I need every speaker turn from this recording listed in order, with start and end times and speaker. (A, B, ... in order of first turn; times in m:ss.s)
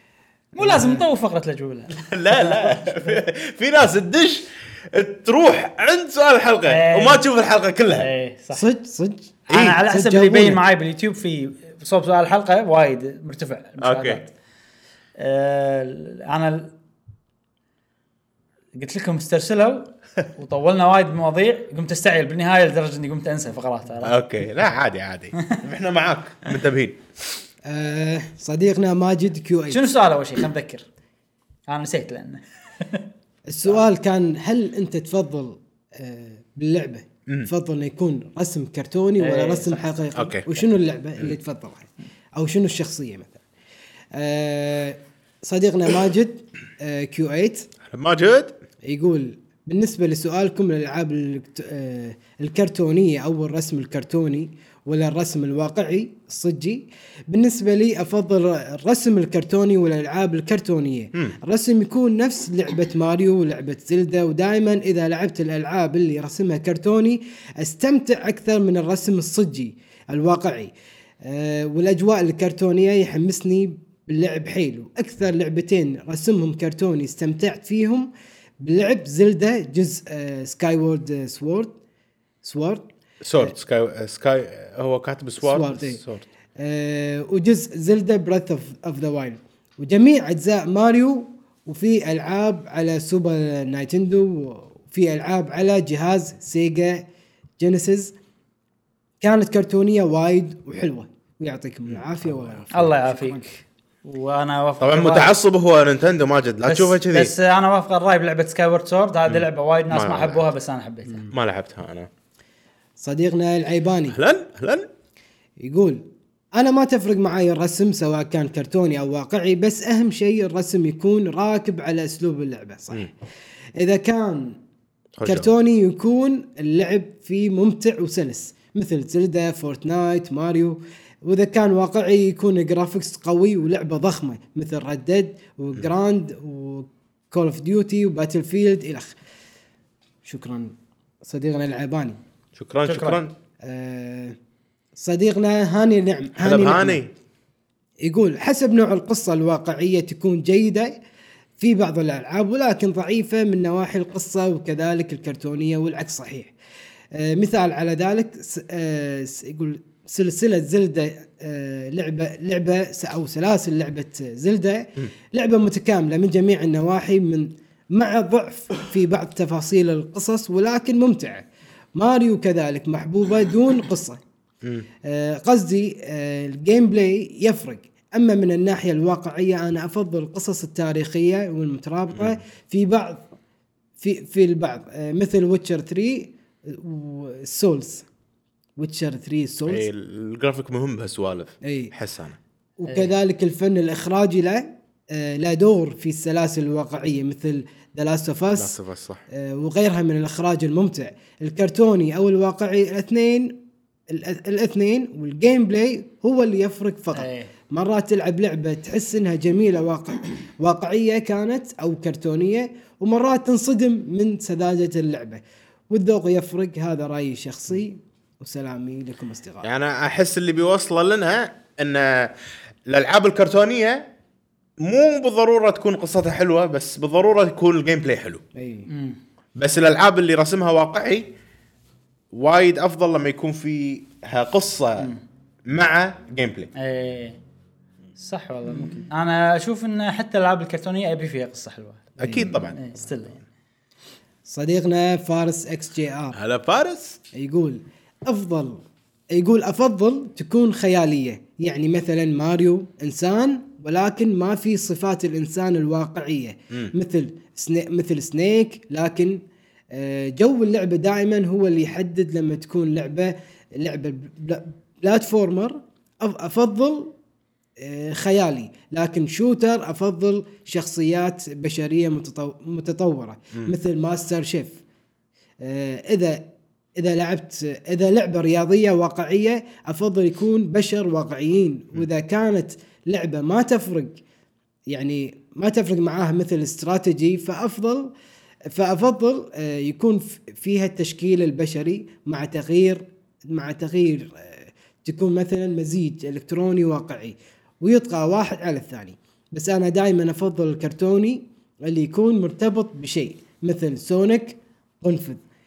0:00.5-0:03.2 A
0:00.6-0:01.0 B
0:01.9-0:08.1 C
0:06.7-0:07.2 A
0:07.9-0:08.6 A
0:08.5-0:10.6 B
0:09.5-0:14.3 A
0:09.5-0:09.8 C
0:13.8-0:14.2 C
0:15.2-0:16.7 A
0:18.7-0:24.2 A
0:24.0-0:27.0 C
0:27.6-0:29.8 B
0:29.7-0:30.8 A
0:31.7-0:33.1 A
0:33.5-0:43.4 B
0:39.2-0:39.9 A
0:40.1-0:40.5 C
0:44.1-0:47.7 B
0:47.8-0:48.6 C
0:48.8-1:10.7 B
1:11.2-1:21.7 B
1:22.4-1:22.8 B
1:23.2-1:26.2 C
1:25.4-1:26.0 B
1:26.6-1:37.0 B
1:37.6-1:38.1 B
1:39.2-1:43.6 B
1:42.7-1:43.4 A
1:44.0-1:45.3 A
1:44.8-1:47.3 C
1:46.6-1:51.3 A
1:49.3-1:50.4 C
1:51.3-1:52.1 C
1:53.0-1:54.2 B
1:54.1-1:54.9 C
1:55.6-2:03.1 B
2:03.8-2:04.6 B
2:05.2-2:05.5 C
2:05.2-2:19.1 B
2:20.2-2:22.2 B
2:22.6-2:23.3 C
2:22.8-2:23.2 A
2:23.6-2:24.4 B
2:25.0-2:27.0 B
2:26.4-2:27.1 C
2:28.0-2:31.0 B
2:31.6-2:36.5 B
2:37.1-2:54.2 B
2:55.0-3:03.2 B
3:02.1-3:02.4 C
3:04.0-3:08.0 B
3:08.8-3:09.8 B
3:09.7-3:12.4 C
3:11.6-3:11.9 B
3:12.8-3:18.8 B
3:12.9-3:13.1 A
3:18.5-3:19.2 C
3:19.3-3:23.6 B
3:24.1-3:39.7 B
3:27.1-3:27.5 A
3:39.6-3:42.3 C
3:42.9-3:44.0 C
3:44.8-3:48.4 C
3:48.5-3:48.9 B
3:48.9-3:49.2 A
3:49.6-3:51.3 C
3:52.3-3:55.1 C
3:55.7-3:56.7 C
3:56.8-3:57.4 A
3:58.2-4:03.4 A
3:58.7-3:59.0 B
4:02.2-4:02.9 C
4:02.2-4:02.5 B
4:04.4-4:06.4 B
4:06.3-4:07.2 C
4:07.3-4:08.8 B
4:09.3-4:19.4 B
4:19.9-4:27.1 B
4:27.8-4:34.8 B
4:35.6-4:44.2 B
4:44.9-4:48.1 B
4:48.7-5:05.4 B